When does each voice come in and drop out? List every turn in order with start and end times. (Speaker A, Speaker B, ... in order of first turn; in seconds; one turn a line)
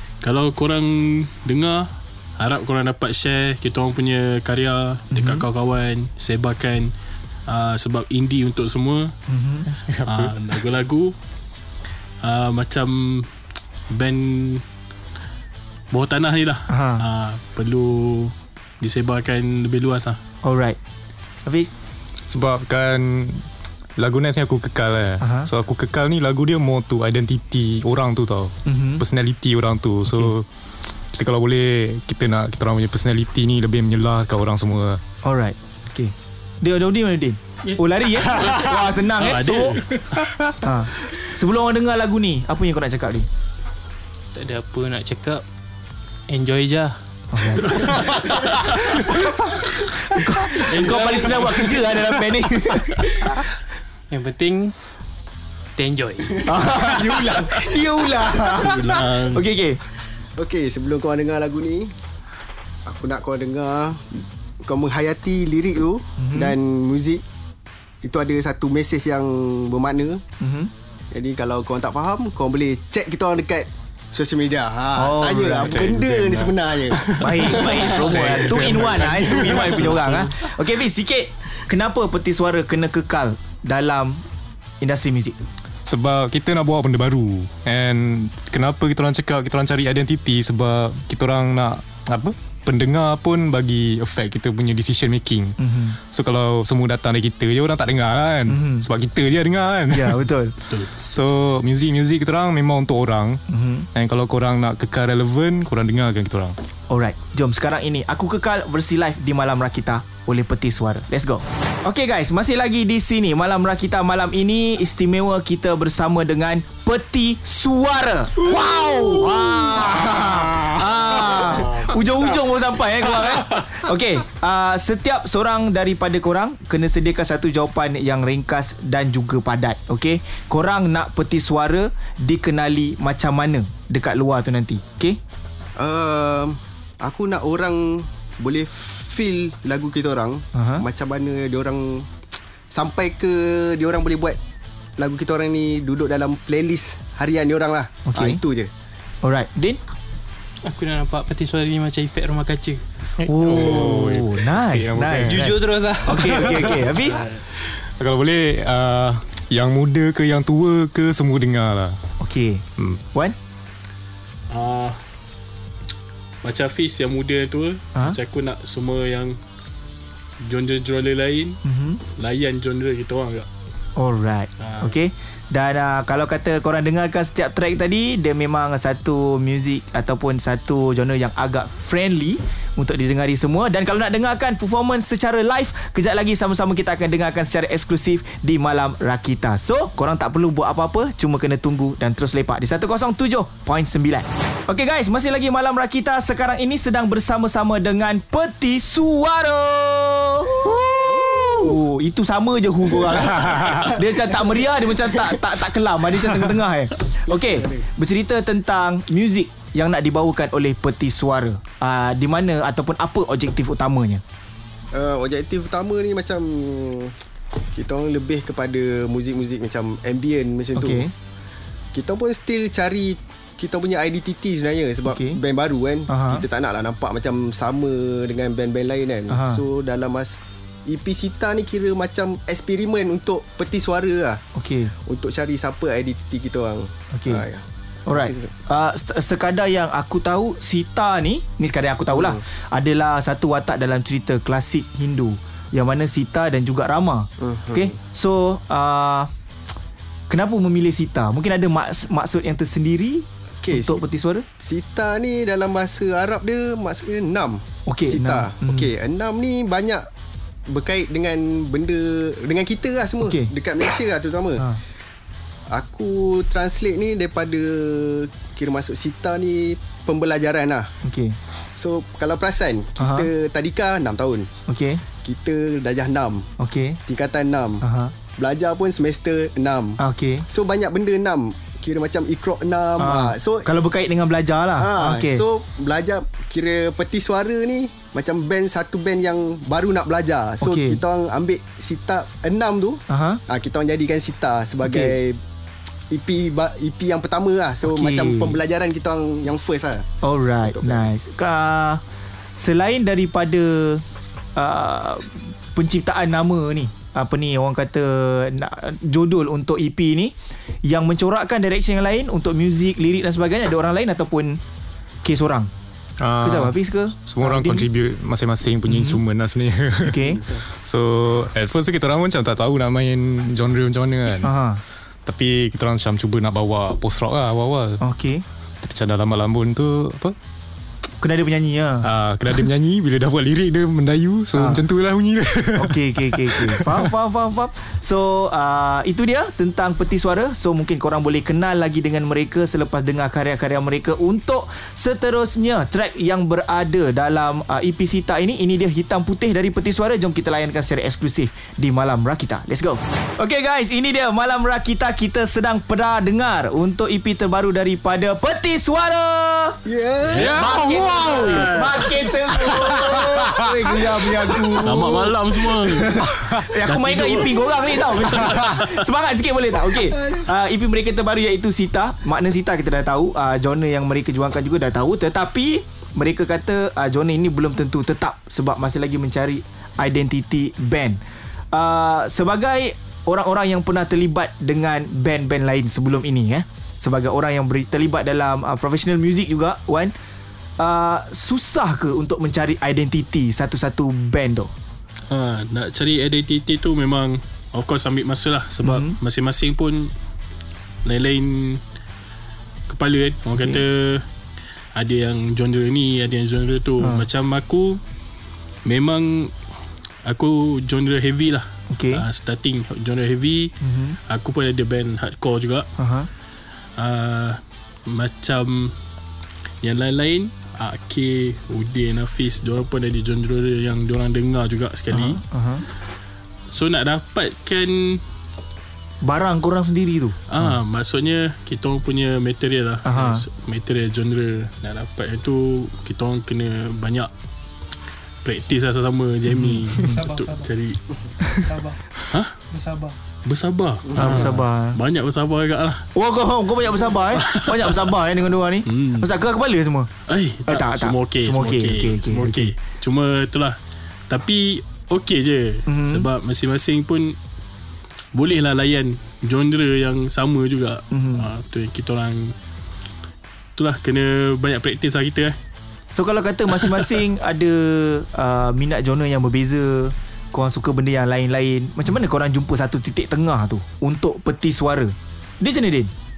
Speaker A: 0.2-6.9
Speaker B: 5.1-5.5
Speaker A: 7.5-9.2
Speaker B: 9.3-9.7
Speaker C: 9.7-10.3
Speaker A: 10.1-11.2
Speaker A: 12.2-13.3
Speaker A: 13.9-14.7
Speaker A: 15.9-20.2
Speaker B: 16.7-17.1
Speaker B: 20.4-20.8
Speaker C: 22.3-30.5
Speaker B: 25.2-25.5
Speaker B: 28.6-29.0
Speaker B: 30.1-30.3
Speaker C: 31.1-35.0
Speaker B: 35.2-39.8
Speaker A: 38.3-40.4
Speaker B: 40.6-43.3
Speaker D: 44.3-45.4
Speaker D: 46.3-47.0
Speaker B: 47.3-53.1
Speaker D: 47.6-48.4
Speaker A: 50.7-51.8
Speaker D: 50.9-51.4
Speaker D: 52.9-53.4
Speaker D: 54.1-54.8
Speaker D: 55.8-57.0
Speaker B: 56.5-59.8
Speaker E: 56.5-57.8
Speaker A: 58.6-59.5
Speaker E: 60.4-61.9
Speaker E: 62.9-67.2
Speaker B: 66.2-66.6
Speaker E: 68.0-70.2
Speaker B: 70.4-70.7
Speaker E: 71.1-78.2
Speaker B: 75.0-75.9
Speaker C: 75.7-76.5
Speaker B: 77.2-84.2
Speaker C: 77.9-80.2
Speaker A: 78.3-79.1
Speaker E: 79.0-79.7
Speaker B: 84.8-85.4
Speaker C: 85.8-100.3
Speaker B: 95.6-96.0
Speaker B: 98.5-98.9
Speaker B: 99.9-100.5
Speaker A: 100.7-101.1
Speaker C: 101.1-103.4
Speaker B: 103.5-103.9
Speaker C: 103.9-106.6
Speaker B: 106.9-135.2
Speaker A: 119.8-120.7
Speaker E: 121.7-122.4
Speaker E: 135.8-142.1
Speaker B: 140.5-140.8
Speaker E: 142.7-144.4
Speaker E: 145.0-148.7
Speaker B: 148.1-148.4
Speaker B: 149.2-149.8
Speaker D: 150.6-152.8
Speaker C: 153.2-155.6
Speaker B: 153.2-157.3
Speaker D: 155.2-157.0
Speaker C: 157.5-162.0
Speaker B: 162.2-163.3
Speaker C: 162.8-163.0
Speaker A: 164.5-165.0
Speaker A: 166.4-169.4
Speaker A: 170.4-171.6
Speaker B: 171.7-172.0
Speaker A: 172.1-173.5
Speaker B: 174.0-200.8
Speaker A: 174.6-174.9
Speaker E: 201.0-201.8
Speaker B: 201.6-214.2
Speaker E: 203.0-205.3
Speaker E: 207.3-207.9
Speaker E: 214.9-217.2
Speaker E: 217.7-221.1
Speaker B: 220.8-221.1
Speaker E: 221.9-234.4
Speaker B: 225.1-225.4
Speaker B: 226.1-226.4
Speaker B: 229.3-229.6
Speaker B: 234.6-234.9
Speaker E: 235.0-238.6
Speaker B: 237.1-237.4
Speaker B: 238.1-249.3
Speaker E: 242.1-242.4
Speaker E: 247.4-247.9
Speaker B: 250.3-254.5
Speaker E: 253.6-254.0
Speaker E: 254.6-260.1
Speaker B: 257.9-258.9
Speaker E: 260.7-264.7
Speaker B: 263.2-263.5
Speaker E: 265.7-270.9
Speaker B: 271.0-271.4
Speaker E: 271.7-274.5
Speaker B: 273.0-273.3
Speaker B: 274.7-275.0
Speaker E: 275.2-276.5
Speaker B: 276.6-277.0
Speaker E: 277.1-277.8
Speaker B: 277.8-278.1
Speaker E: 278.4-283.7
Speaker B: 280.0-280.4
Speaker B: 283.0-285.4
Speaker E: 284.8-295.4
Speaker B: 290.6-291.0
Speaker B: 293.1-293.4
Speaker B: 294.8-295.1
Speaker E: 296.1-300.1
Speaker B: 297.9-298.6
Speaker B: 300.2-302.0
Speaker E: 300.6-301.1
Speaker B: 302.6-304.0
Speaker B: 304.6-314.6
Speaker B: 315.2-315.7
Speaker C: 316.2-324.5
Speaker B: 316.4-317.9
Speaker B: 318.9-319.2
Speaker B: 320.0-320.4
Speaker E: 320.4-320.6
Speaker B: 324.4-324.8
Speaker C: 325.2-328.0
Speaker B: 328.0-328.4
Speaker C: 328.8-330.4
Speaker B: 331.2-332.1
Speaker C: 332.0-337.1
Speaker B: 334.6-334.8
Speaker B: 335.8-359.8
Speaker E: 359.9-361.7
Speaker A: 360.2-360.8
Speaker C: 360.4-364.3
Speaker B: 360.4-381.2
Speaker A: 361.3-362.0
Speaker E: 362.6-365.2
Speaker A: 364.8-368.8
Speaker E: 369.9-370.4
Speaker B: 381.7-390.1
Speaker B: 390.8-394.7
Speaker A: 395.3-400.1
Speaker B: 398.8-399.2
Speaker A: 401.1-401.8
Speaker A: 402.9-404.3
Speaker A: 404.9-408.0
Speaker B: 407.0-407.3
Speaker A: 408.9-409.5
Speaker A: 410.2-415.9
Speaker B: 411.9-412.2
Speaker B: 413.8-414.2
Speaker B: 416.0-416.3
Speaker A: 417.0-419.0
Speaker A: 419.8-425.4
Speaker B: 425.1-425.9
Speaker A: 426.7-428.2
Speaker B: 429.2-430.4
Speaker A: 430.5-437.3
Speaker B: 433.1-433.4
Speaker A: 438.4-441.1
Speaker B: 439.5-440.2
Speaker D: 440.2-440.6
Speaker B: 441.4-441.7
Speaker D: 441.7-442.0
Speaker A: 442.3-442.6
Speaker D: 442.7-443.2
Speaker A: 443.4-446.1
Speaker E: 444.1-444.6
Speaker B: 444.2-445.0
Speaker B: 446.1-450.1
Speaker A: 447.3-448.1
Speaker A: 448.9-449.3
Speaker A: 450.3-453.8
Speaker B: 450.7-452.7
Speaker A: 454.3-457.4
Speaker B: 455.9-456.3
Speaker A: 458.3-462.6
Speaker B: 461.1-461.5
Speaker A: 463.8-465.6
Speaker B: 466.1-476.1